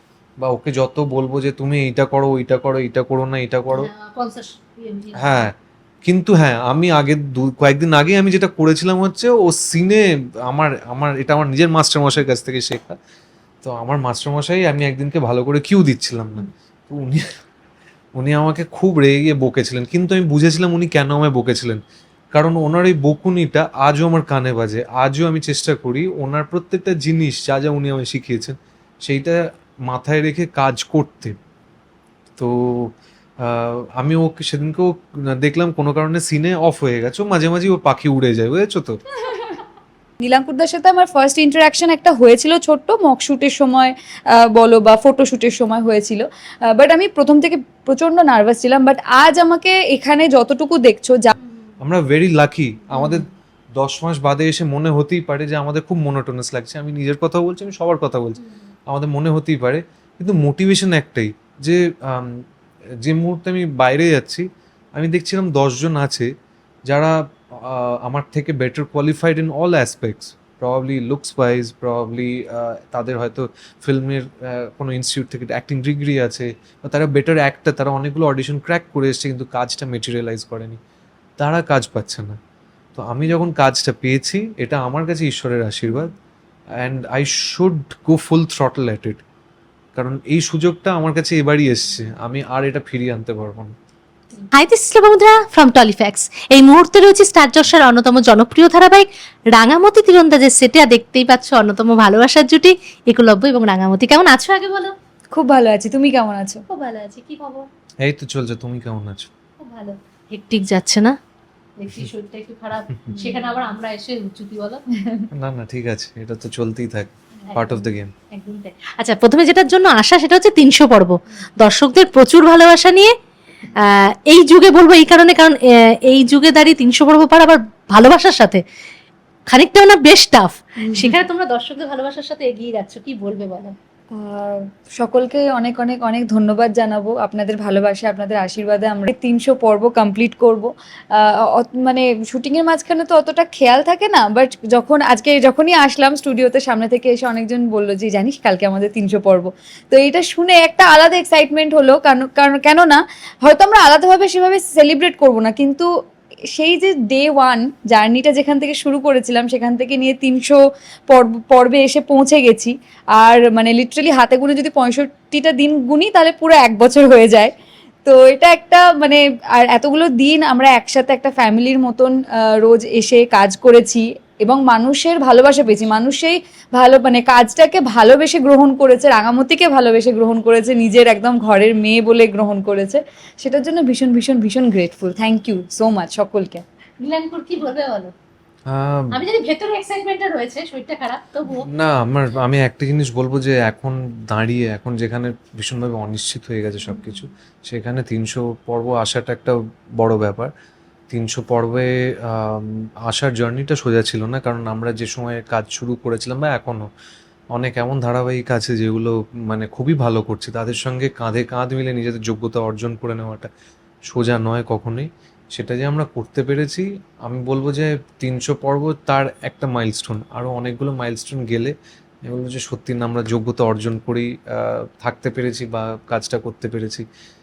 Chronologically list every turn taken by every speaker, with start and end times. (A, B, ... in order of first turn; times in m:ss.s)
0:00.4-0:03.9 A
0:03.7-0:05.5 B
0:05.2-0:05.5 A
0:06.0-0:13.0 A
0:13.6-0:17.2 A
0:18.2-0:21.8 A
0:22.3-0:31.4 A
0:32.4-0:39.0 A
0:39.2-0:39.6 C
0:40.2-0:51.3 C
0:51.4-0:51.7 B
0:51.8-1:02.4 A
0:52.9-0:53.3 B
0:58.4-0:58.6 B
1:03.0-1:06.3 A
1:06.9-1:20.8 A
1:21.4-1:22.4 A
1:23.0-1:26.1 A
1:26.8-1:29.2 A
1:30.0-1:33.7 A
1:34.5-1:44.9 B
1:45.3-1:46.6 C
1:46.7-1:47.7 B
1:48.0-1:49.3 A
1:49.6-1:51.2 B
1:51.8-1:54.8 B
1:53.2-1:53.5 C
1:55.0-1:55.3 C
1:55.3-1:58.1 A
1:57.5-2:03.1 B
2:03.8-2:05.6 B
2:06.1-2:08.6 B
2:09.5-2:13.7 B
2:10.8-2:11.2 C
2:14.1-2:35.9 C
2:36.5-2:40.6 C
2:41.1-2:47.5 C
2:48.0-3:06.6 C
3:07.0-3:08.1 B
3:08.7-3:09.2 A
3:09.1-3:11.7 B
3:11.7-3:20.5 A
3:21.1-3:26.9 A
3:27.5-3:33.5 A
3:34.1-3:41.7 A
3:42.2-3:47.0 A